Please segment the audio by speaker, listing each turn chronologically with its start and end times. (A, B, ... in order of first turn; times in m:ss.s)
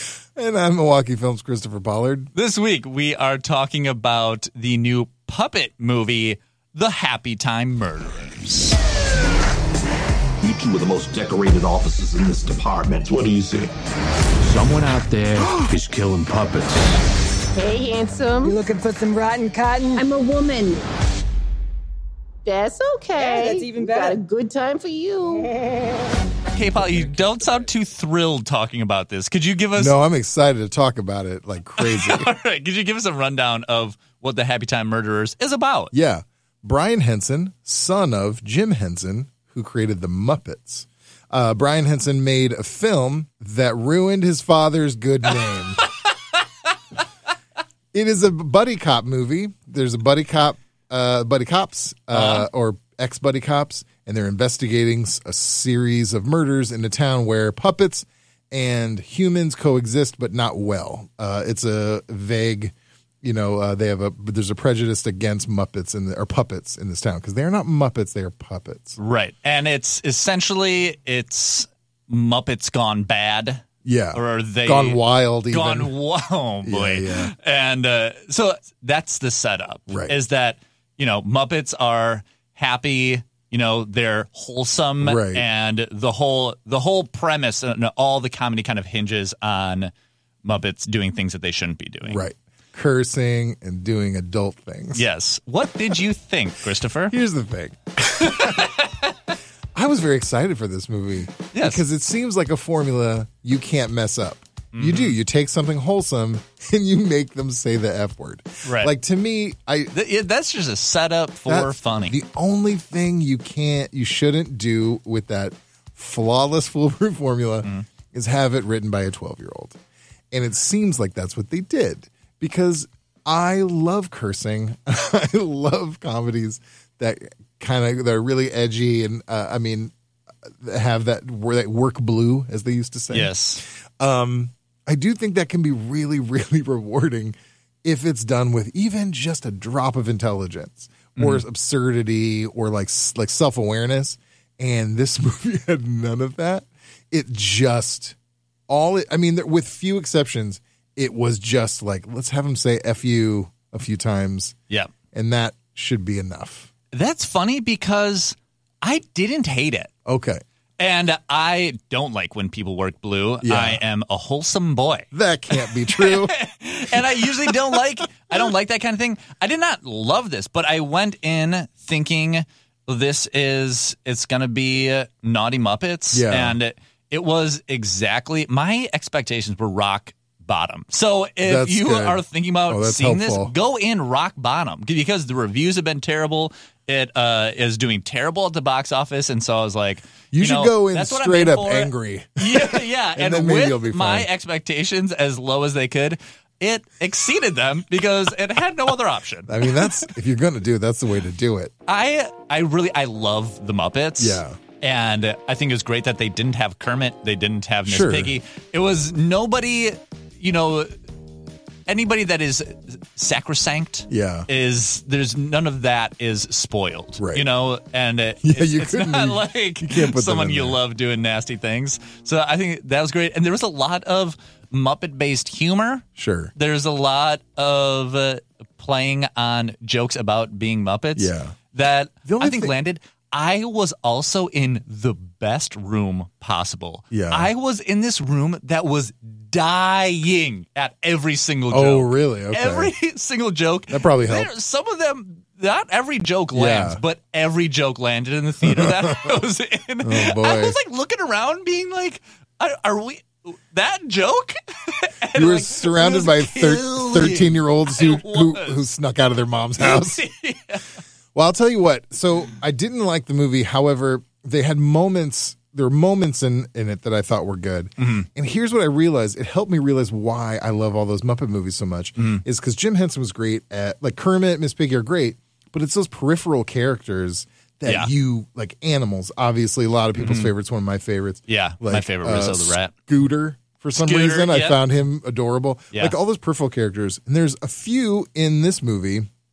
0:00.3-0:02.3 A
0:02.3-0:08.8 B
0:10.4-0:13.7 C
0:14.4-0:16.7 D
0:15.1-0:17.0 C
0:17.5-0:18.6 E
0:18.4-0:20.0 F
0:20.0-0:20.8 E
0:22.4-0:25.5 E
0:23.2-0:24.2 F
0:26.5-0:30.0 B
0:29.7-0:32.3 A
0:31.8-0:35.9 B
0:35.9-0:45.8 A
0:47.9-1:09.0 A
0:52.1-0:52.5 B
1:09.0-1:29.9 B
1:13.8-1:15.9 A
1:16.6-1:17.3 A
1:19.9-1:20.2 A
1:25.0-1:25.4 A
1:30.4-1:32.2 B
1:32.0-1:35.0 A
1:34.9-1:37.2 B
1:37.1-1:38.7 A
1:38.2-1:39.3 B
1:39.7-1:49.9 A
1:41.5-1:41.8 B
1:44.7-1:45.2 B
1:48.6-1:48.9 B
1:49.9-1:52.2 B
1:51.4-1:59.8 A
2:00.3-2:09.9 A
2:10.5-2:28.1 A
2:13.1-2:13.6 B
2:21.2-2:21.4 B
2:28.7-2:34.5 A
2:35.1-2:36.7 A
2:36.9-2:39.9 B
2:40.0-2:40.4 A
2:40.8-3:20.1 B
2:43.4-2:43.8 A
2:45.1-2:46.3 A
2:46.9-2:47.8 A
2:56.1-2:56.6 A
3:01.4-3:03.5 A
3:10.3-3:14.3 A
3:19.5-3:21.7 A
3:21.8-3:30.9 B
3:24.2-3:24.6 A
3:27.8-3:28.3 A
3:31.9-4:18.8 B
3:34.1-3:34.5 A
3:37.2-3:37.5 A
3:38.4-3:40.8 A
3:46.2-3:46.5 A
3:51.2-3:51.5 A
3:52.2-3:52.7 A
3:57.1-3:57.5 A
4:01.7-4:02.9 A
4:03.9-4:04.5 A
4:06.5-4:07.0 A
4:08.6-4:09.4 A
4:10.0-4:10.8 A
4:15.3-4:20.2 A
4:19.8-4:21.0 B
4:21.3-4:49.3 A
4:28.0-4:28.3 B
4:32.2-4:32.4 B
4:37.8-4:38.1 B
4:40.1-4:40.5 B
4:41.5-4:42.9 B
4:44.0-4:44.8 B